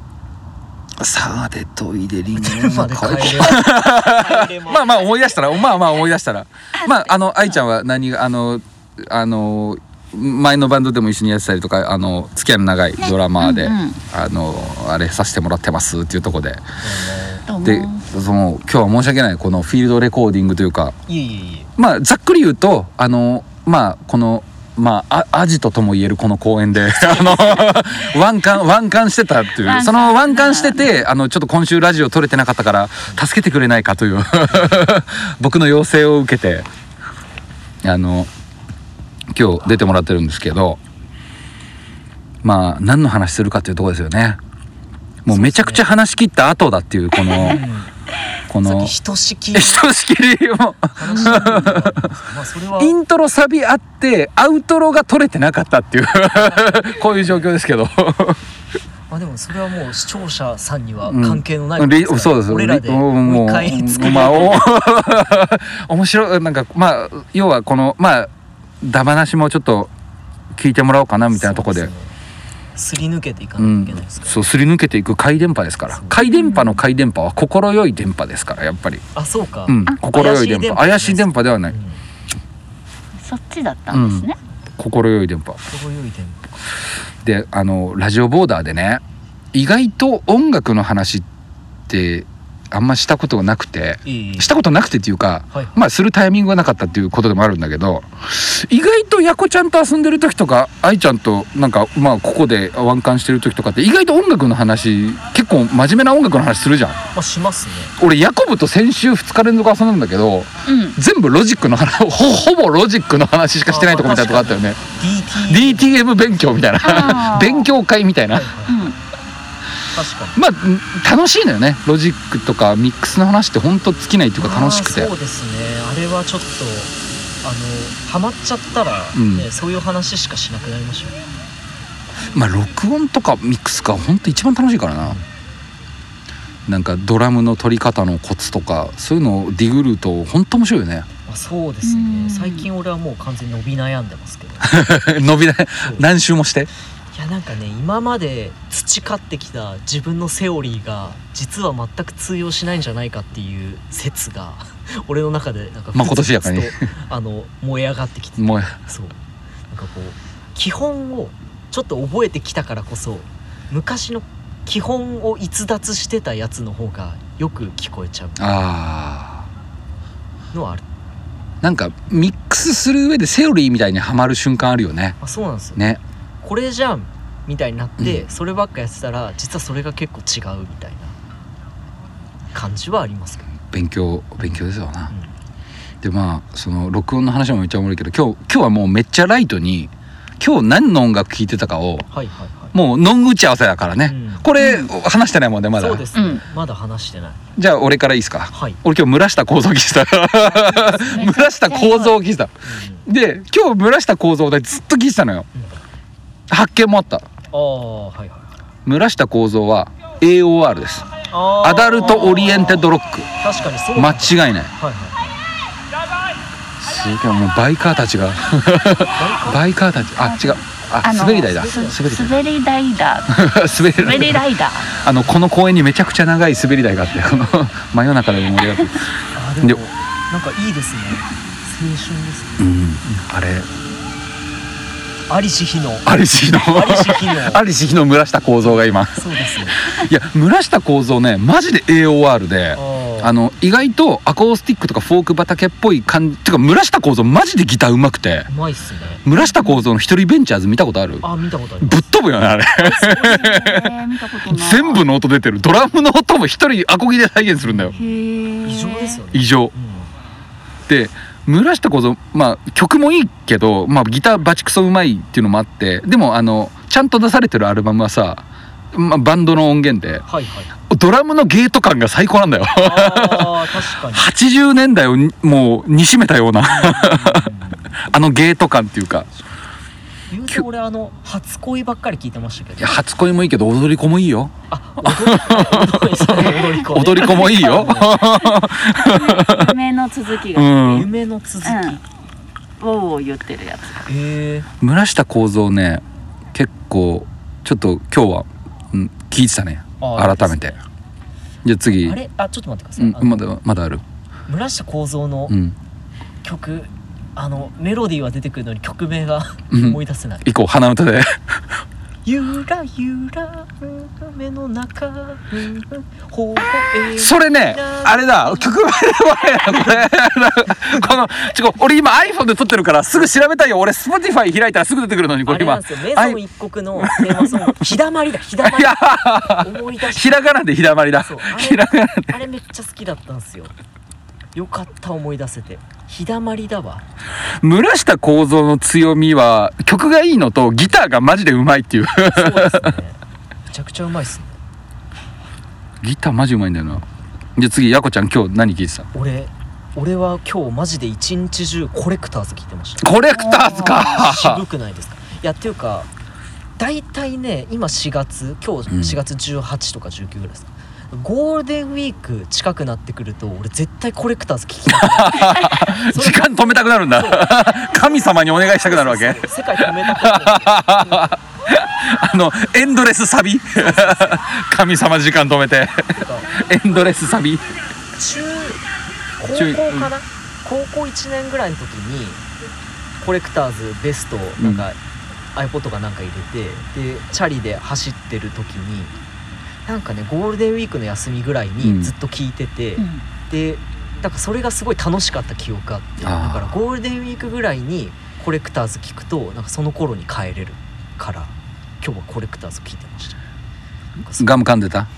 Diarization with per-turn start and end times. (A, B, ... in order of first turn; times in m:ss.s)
0:01.0-0:16.6 A
0:02.3-0:05.1 B
0:06.7-0:07.6 C
0:13.0-0:14.0 C
0:16.8-0:17.4 B
0:17.5-0:18.0 C
0:17.6-0:21.0 A
0:21.1-0:21.7 B
0:21.8-0:36.7 A
0:29.6-0:31.0 C
0:37.8-0:38.3 A
0:39.3-0:40.8 A
0:42.4-0:44.4 A
0:45.2-0:47.6 A
0:45.3-0:45.8 B
0:47.3-0:47.9 B
0:48.5-0:48.9 A
0:48.6-0:49.8 B
0:49.5-0:52.2 A
0:51.0-0:53.0 B
0:51.2-0:51.6 C
0:52.8-0:58.4 A
0:56.4-0:56.8 B
0:59.1-1:04.8 B
1:01.0-1:08.3 A
1:08.8-1:09.9 A
1:10.5-1:11.9 A
1:11.3-1:12.1 B
1:12.7-1:14.4 B
1:13.6-1:19.0 A
1:15.9-1:16.2 B
1:16.2-1:16.8 C
1:19.1-1:22.0 B
1:19.7-1:21.7 A
1:23.2-1:24.4 C
1:23.9-1:25.6 A
1:25.7-1:26.5 B
1:27.2-1:29.0 A
1:29.5-1:31.2 A
1:31.9-1:47.0 A
1:34.0-1:34.6 B
1:35.5-1:35.8 B
1:47.1-1:48.0 B
1:48.0-1:54.8 A
1:50.6-1:51.0 C
1:53.7-1:56.0 B
1:55.4-1:58.5 A
1:56.8-1:57.7 C
1:58.3-1:58.9 B
1:58.7-1:59.0 C
1:59.9-2:00.4 B
2:00.4-2:05.1 A
2:04.3-2:11.2 B
2:09.1-2:09.5 A
2:12.3-2:15.2 A
2:16.7-2:21.1 A
2:21.3-2:24.8 B
2:21.8-2:22.7 C
2:24.6-2:26.7 A
2:25.8-2:26.1 B
2:27.1-2:39.2 B
2:35.9-2:36.9 A
2:38.4-2:38.8 A
2:39.7-2:48.7 B
2:48.4-2:49.4 A
2:50.5-2:50.8 B
2:51.6-2:55.2 A
2:55.2-2:55.9 B
2:56.4-3:01.1 B
2:58.0-2:58.2 A
3:02.5-3:03.5 B
3:03.7-3:05.1 A
3:06.0-3:12.0 A
3:12.1-3:12.8 B
3:12.7-3:16.1 A
3:14.0-3:14.5 B
3:14.6-3:14.9 C
3:15.8-3:17.4 B
3:16.1-3:16.4 C
3:17.6-3:22.5 A
3:18.5-3:18.8 B
3:20.4-3:21.4 B
3:21.0-3:22.2 C
3:22.6-3:23.1 B
3:23.0-3:25.5 A
3:26.5-3:27.2 A
3:27.5-3:28.5 B
3:28.8-3:31.1 A
3:31.3-3:32.8 B
3:31.6-3:33.3 A
3:32.0-3:32.4 C
3:33.4-3:35.4 B
3:33.9-3:34.7 A
3:36.8-3:42.4 A
3:39.1-3:39.7 B
3:40.1-3:44.9 C
3:41.2-3:42.1 B
3:43.3-3:49.1 A
3:49.3-3:52.7 B
3:52.6-3:53.7 A
3:55.3-3:57.6 B
3:56.0-4:08.5 A
3:58.6-3:59.8 B
4:02.7-4:03.4 B
4:08.5-4:09.2 B
4:09.2-4:11.2 A
4:09.4-4:09.8 C
4:11.2-4:12.1 B
4:11.8-4:13.9 A
4:12.8-4:13.6 B
4:13.0-4:15.0 C
4:14.4-4:17.9 A
4:17.6-4:20.1 B
4:17.9-4:19.2 C
4:19.3-4:19.7 A
4:20.9-4:30.2 A
4:30.2-4:30.7 B
4:30.9-4:39.3 A
4:32.8-4:34.3 B
4:36.6-4:38.0 B
4:40.3-4:43.0 B
4:42.8-4:49.8 A
4:44.7-4:48.2 B
4:47.3-4:47.7 C
4:48.2-4:51.0 C
4:50.5-4:51.1 A
4:50.8-4:52.0 B
4:51.6-4:52.0 C
4:52.8-4:54.0 C
4:54.1-4:54.7 B
4:54.8-5:00.8 A
5:00.0-5:00.8 B
5:01.6-5:02.2 A
5:02.0-5:03.5 B
5:03.0-5:04.0 A
5:04.5-5:05.6 B
5:05.5-5:05.8 A
5:06.4-5:10.5 B
5:09.7-5:11.6 A
5:12.2-5:18.8 B
5:17.2-5:26.4 A
5:19.7-5:20.2 B
5:20.8-5:21.0 B
5:25.4-5:30.6 B
5:27.0-5:27.8 A
5:28.6-5:32.4 A
5:31.2-5:33.7 B
5:34.5-5:37.0 B
5:37.6-5:42.9 A
5:42.2-5:44.6 B
5:46.0-5:47.0 A
5:47.6-5:49.1 A
5:49.1-5:56.1 B
5:53.0-5:54.6 A
5:53.3-5:54.2 C
5:56.8-6:07.6 B
5:58.9-5:59.2 A
6:04.9-6:17.6 A
6:08.7-6:11.3 B
6:13.8-6:14.4 B
6:16.1-6:16.5 B
6:18.1-6:18.8 B
6:19.4-6:22.4 B
6:19.5-6:20.1 A
6:23.2-6:25.0 B
6:24.6-6:24.8 A
6:25.6-6:29.1 B
6:29.8-6:43.4 B
6:31.8-6:32.1 A
6:33.0-6:33.2 C
6:36.2-6:36.8 A
6:44.2-6:44.6 B
6:44.4-6:45.1 A